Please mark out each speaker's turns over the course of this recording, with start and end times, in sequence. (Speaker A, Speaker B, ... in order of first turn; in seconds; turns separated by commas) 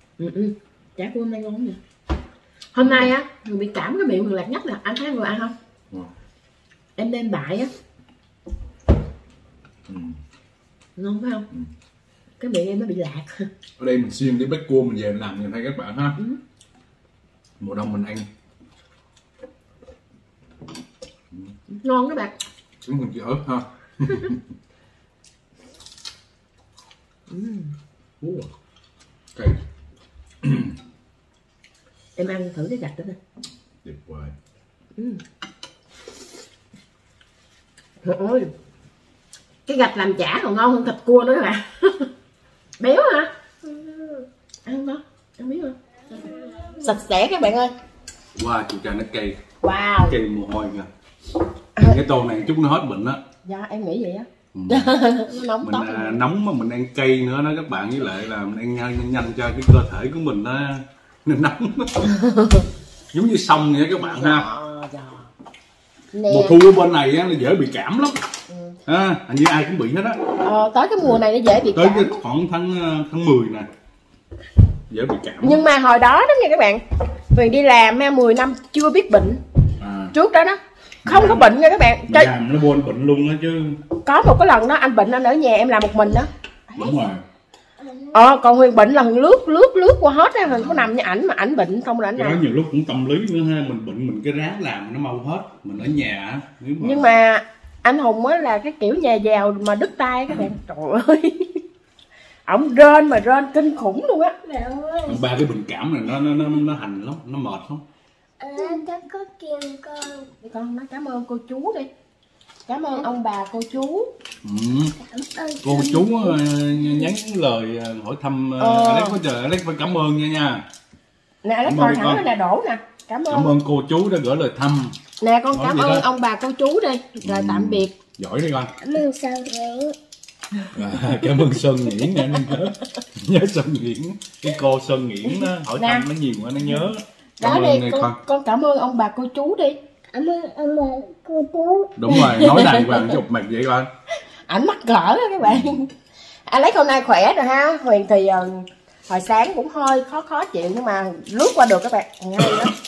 Speaker A: 0.2-1.8, Speaker A: 2.7-5.5, Speaker B: 2.8-3.1, Speaker A: 7.0-7.7, Speaker B: 9.9-10.2, Speaker A: 11.0-11.5, Speaker A: 12.4-13.5, Speaker B: 13.8-16.2, Speaker B: 17.6-18.3, Speaker A: 21.7-22.4, Speaker B: 22.8-24.4, Speaker A: 27.3-27.8, Speaker B: 28.2-28.5, Speaker B: 29.4-29.6, Speaker B: 30.4-30.8, Speaker A: 32.2-33.2, Speaker B: 33.8-34.4, Speaker A: 35.0-35.2, Speaker A: 38.0-38.5, Speaker A: 39.7-42.1, Speaker A: 42.8-45.8, Speaker C: 46.2-46.8, Speaker A: 46.6-47.7, Speaker B: 48.4-49.4, Speaker A: 49.6-50.2, Speaker B: 50.0-50.9, Speaker B: 51.8-53.2, Speaker A: 53.5-56.2, Speaker B: 54.5-55.0, Speaker B: 55.6-62.1, Speaker A: 62.1-62.7, Speaker B: 63.1-64.5, Speaker A: 64.0-65.3, Speaker A: 66.1-66.6, Speaker B: 66.3-68.2, Speaker A: 68.5-68.8, Speaker B: 68.9-70.2, Speaker A: 70.4-72.2, Speaker B: 71.7-73.7, Speaker B: 74.9-75.6, Speaker A: 75.4-79.4, Speaker B: 79.8-80.2, Speaker A: 80.1-82.3, Speaker B: 81.1-81.5, Speaker B: 82.1-83.8, Speaker A: 84.0-87.0, Speaker B: 86.8-87.2, Speaker C: 87.8-88.2, Speaker A: 88.1-92.4, Speaker B: 90.5-90.9, Speaker B: 92.2-97.1, Speaker A: 96.8-101.6, Speaker A: 102.5-104.4, Speaker C: 104.4-105.2, Speaker B: 105.1-107.8, Speaker C: 108.4-110.3, Speaker A: 110.4-111.9, Speaker A: 112.7-114.1, Speaker B: 114.4-115.0, Speaker C: 115.0-116.3, Speaker B: 115.6-120.7, Speaker A: 118.6-119.2, Speaker A: 121.4-123.5, Speaker B: 121.6-122.2, Speaker B: 123.3-125.0, Speaker A: 125.2-127.9, Speaker B: 125.5-126.1, Speaker B: 127.2-128.7, Speaker C: 128.8-130.0, Speaker B: 130.7-138.2, Speaker A: 131.2-131.5, Speaker A: 135.2-136.1, Speaker A: 137.4-139.8, Speaker C: 140.1-141.9, Speaker B: 142.0-143.9, Speaker A: 142.1-143.2, Speaker A: 144.5-145.9, Speaker B: 145.4-145.8, Speaker A: 146.5-152.8